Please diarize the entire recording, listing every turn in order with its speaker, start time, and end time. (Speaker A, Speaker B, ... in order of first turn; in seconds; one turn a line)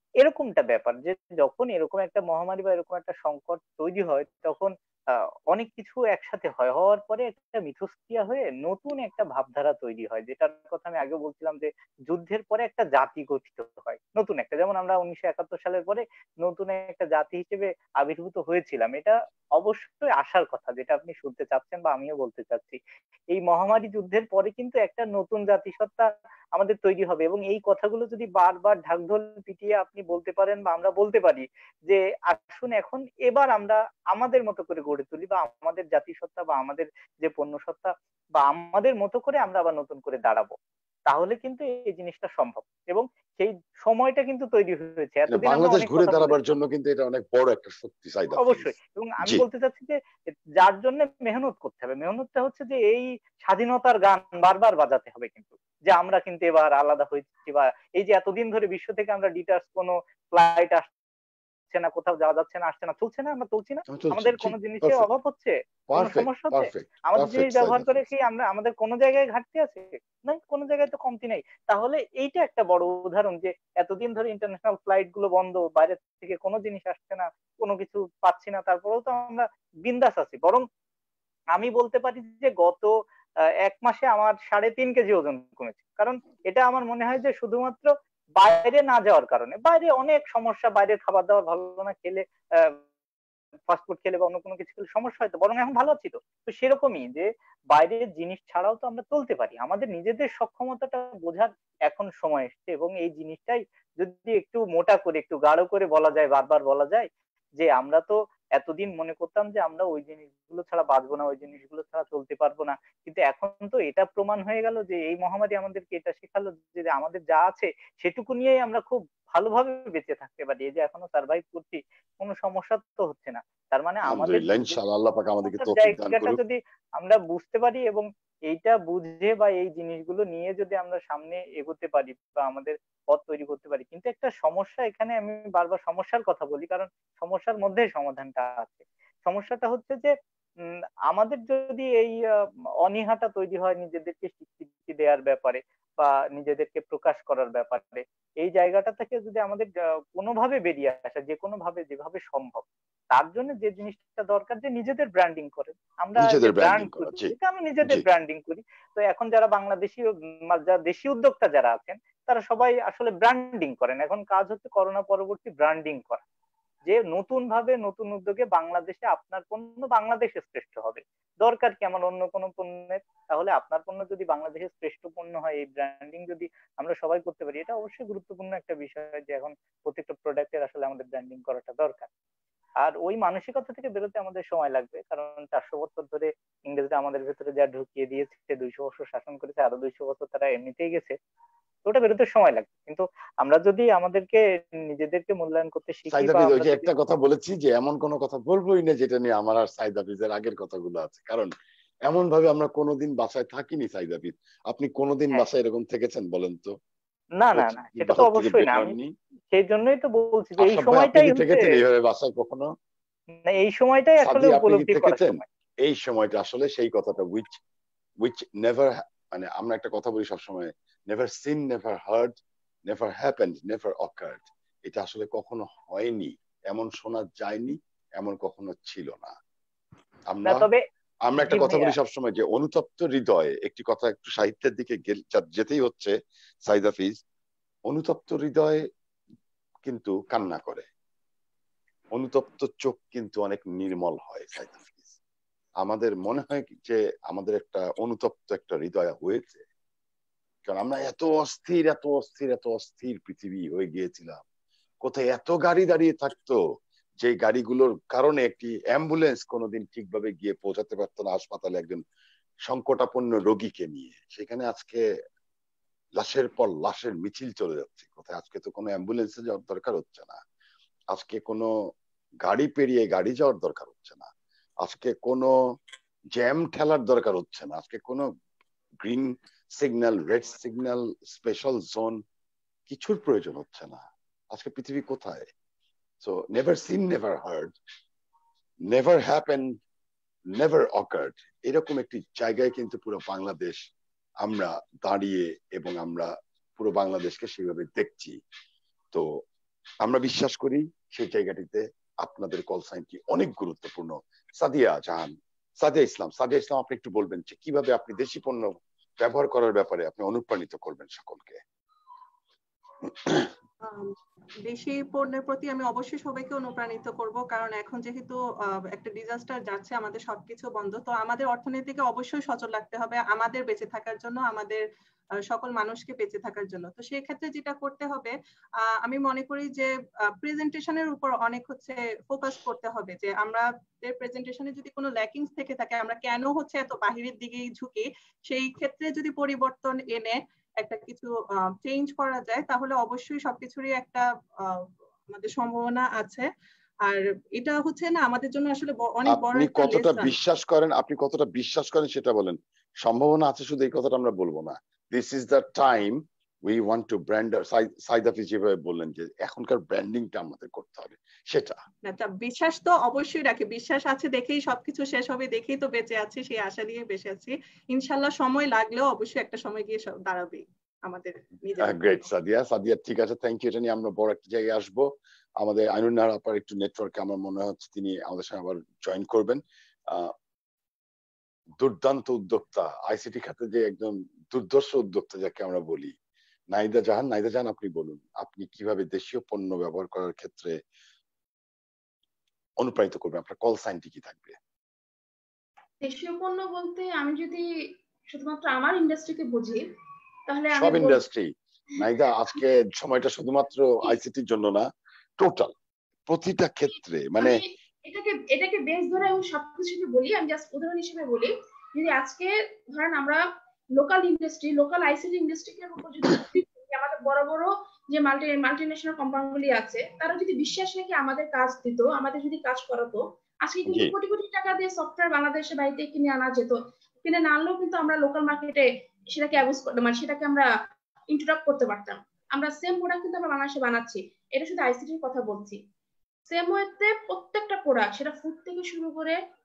Speaker A: 0.2-4.7
Speaker A: 5.5-22.8
Speaker A: 23.3-40.5
Speaker A: 41.1-46.4
Speaker B: 45.3-49.4
Speaker A: 48.4-50.0
Speaker A: 50.6-60.9
Speaker A: 61.7-80.6
Speaker B: 63.9-65.1
Speaker B: 65.9-68.0
Speaker A: 81.5-82.9
Speaker A: 83.6-92.8
Speaker A: 93.7-124.8
Speaker B: 124.1-126.4
Speaker A: 125.5-140.1
Speaker A: 141.1-142.2
Speaker A: 142.8-166.2
Speaker B: 156.2-158.0
Speaker A: 166.8-182.1
Speaker A: 182.8-191.2
Speaker A: 191.8-196.9
Speaker B: 196.1-201.5
Speaker B: 202.1-206.7
Speaker A: 207.4-208.9
Speaker B: 207.5-209.1
Speaker A: 209.5-211.7
Speaker B: 210.6-212.7
Speaker A: 213.4-215.4
Speaker B: 214.2-217.6
Speaker B: 218.2-222.4
Speaker B: 222.9-229.3
Speaker B: 230.3-230.7
Speaker A: 230.4-230.8
Speaker B: 231.2-236.1
Speaker A: 231.5-231.9
Speaker B: 236.7-237.2
Speaker B: 237.9-238.8
Speaker B: 239.8-240.9
Speaker B: 242.1-245.1
Speaker B: 245.8-249.6
Speaker B: 250.6-254.4
Speaker B: 255.0-256.6
Speaker B: 257.2-262.0
Speaker B: 262.6-265.0
Speaker B: 266.2-270.4
Speaker B: 271.1-271.7
Speaker B: 272.4-274.3
Speaker B: 274.8-275.5
Speaker B: 276.3-278.2
Speaker B: 279.0-282.2
Speaker B: 282.9-285.5
Speaker B: 286.2-287.7
Speaker B: 288.9-289.8
Speaker B: 290.5-293.8
Speaker B: 294.4-298.4
Speaker B: 299.1-299.4
Speaker B: 300.0-311.6
Speaker C: 313.8-324.8
Speaker C: 325.5-329.9
Speaker C: 330.4-346.5
Speaker C: 347.0-350.3
Speaker B: 349.2-361.8
Speaker C: 362.0-372.3
Speaker B: 371.8-375.1
Speaker B: 375.6-380.3
Speaker B: 381.8-386.1
Speaker B: 386.7-390.8
Speaker B: 392.8-394.6
Speaker D: 396.0-399.8
Speaker D: 400.5-401.2
Speaker B: 400.7-404.9
Speaker B: 405.4-405.7
Speaker B: 406.3-407.6
Speaker D: 407.4-413.4
Speaker D: 413.9-430.7
Speaker B: 423.9-424.1
Speaker D: 431.3-435.8
Speaker D: 436.5-439.4